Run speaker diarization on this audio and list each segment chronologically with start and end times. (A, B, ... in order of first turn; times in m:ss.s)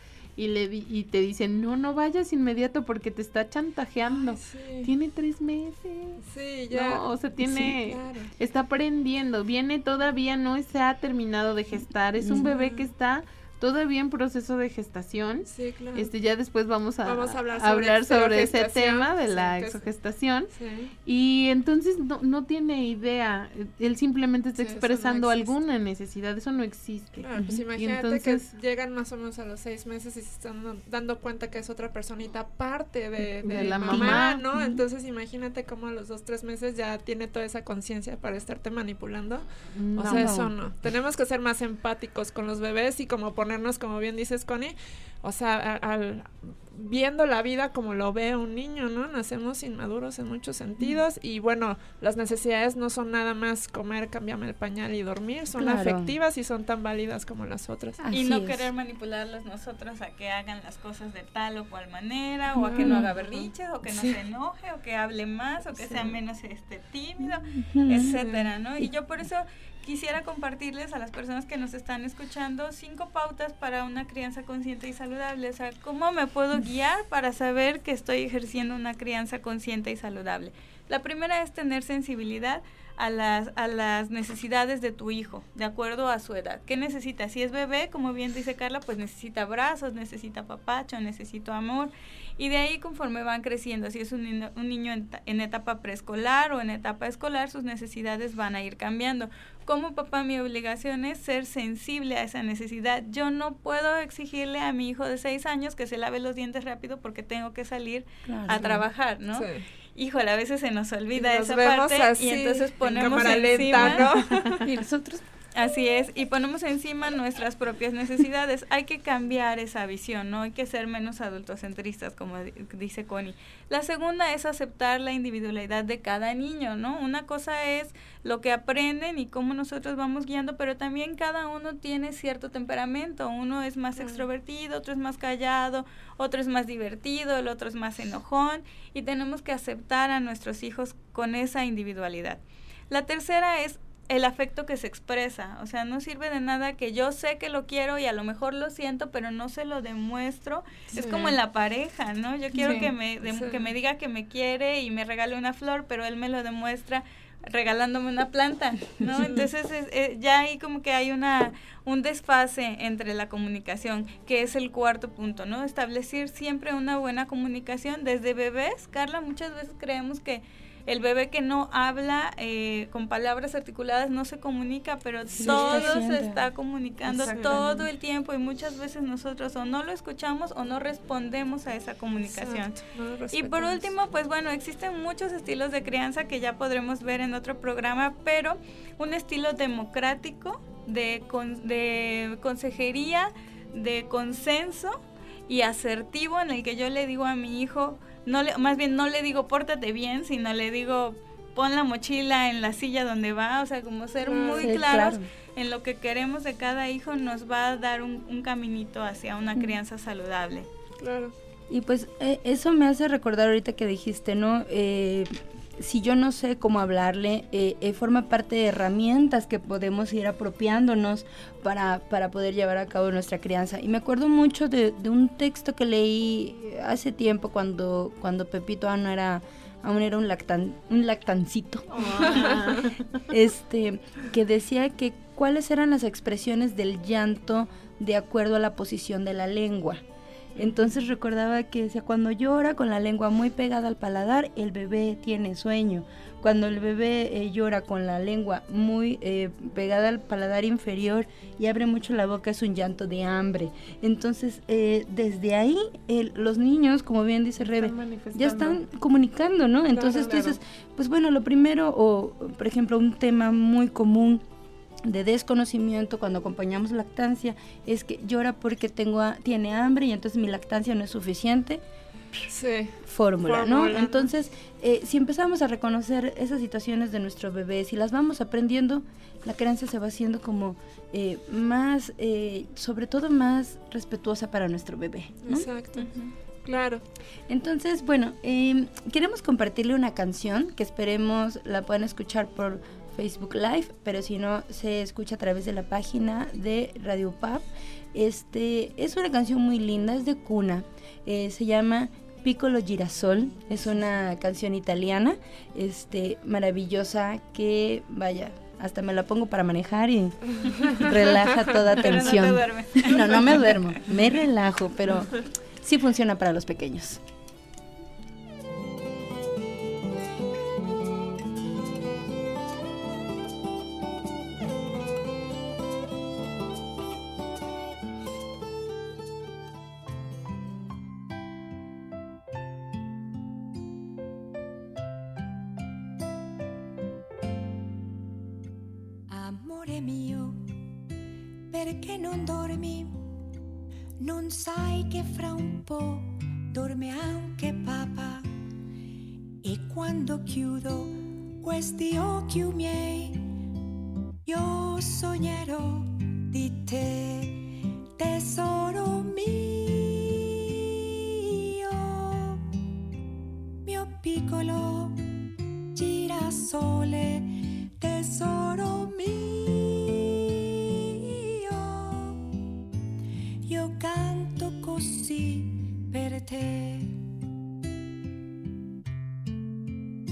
0:00.4-0:06.2 A
0:04.1-0:04.9 B
0:06.2-0:08.3 B
0:06.7-0:20.5 A
0:07.4-0:07.7 C
0:12.2-0:12.5 C
0:12.3-0:12.9 B
0:15.5-0:16.1 B
0:17.0-0:19.9 B
0:20.5-0:20.9 B
0:21.0-0:28.5 A
0:24.6-0:25.5 B
0:27.2-0:58.0 B
0:33.4-0:34.6 A
0:33.9-0:34.3 C
0:39.8-0:40.3 A
0:40.0-0:40.5 C
0:55.5-0:56.1 C
0:58.0-0:58.7 C
0:58.1-1:54.4 D
1:02.6-1:03.1 C
1:02.7-1:04.2 B
1:07.5-1:08.2 C
1:08.1-1:08.4 B
1:48.2-1:48.8 C
1:49.3-1:49.6 B
1:51.1-1:54.7 B
1:53.7-1:54.0 C
1:54.6-1:55.2 C
1:55.5-3:02.7 D
2:14.0-2:14.2 B
2:33.2-2:33.7 B
2:55.3-2:56.4 C
2:55.4-2:56.0 B
2:57.2-2:57.8 B
2:57.2-2:57.6 A
3:02.3-3:03.9 B
3:03.3-3:30.7 D
3:24.2-3:24.8 B
3:24.6-3:25.2 C
3:31.0-3:31.3 B
3:31.7-4:00.0 C
3:51.9-3:53.2 A
3:52.2-3:52.8 B
4:00.6-4:24.4 C
4:17.6-4:18.8 A
4:19.9-4:20.6 B
4:25.0-4:31.8 C
4:32.5-4:34.3 B
4:33.1-4:45.7 C
4:45.4-4:46.1 B
4:46.0-4:46.3 D
4:46.6-4:47.0 B
4:47.5-5:17.2 C
5:11.9-5:13.8 D
5:39.3-5:40.7 E
5:41.7-5:43.2 E
5:44.2-5:48.5 E
5:49.6-5:53.5 E
5:54.4-6:02.7 E
6:03.8-6:05.2 E
6:05.9-6:12.5 E
6:13.6-6:17.2 E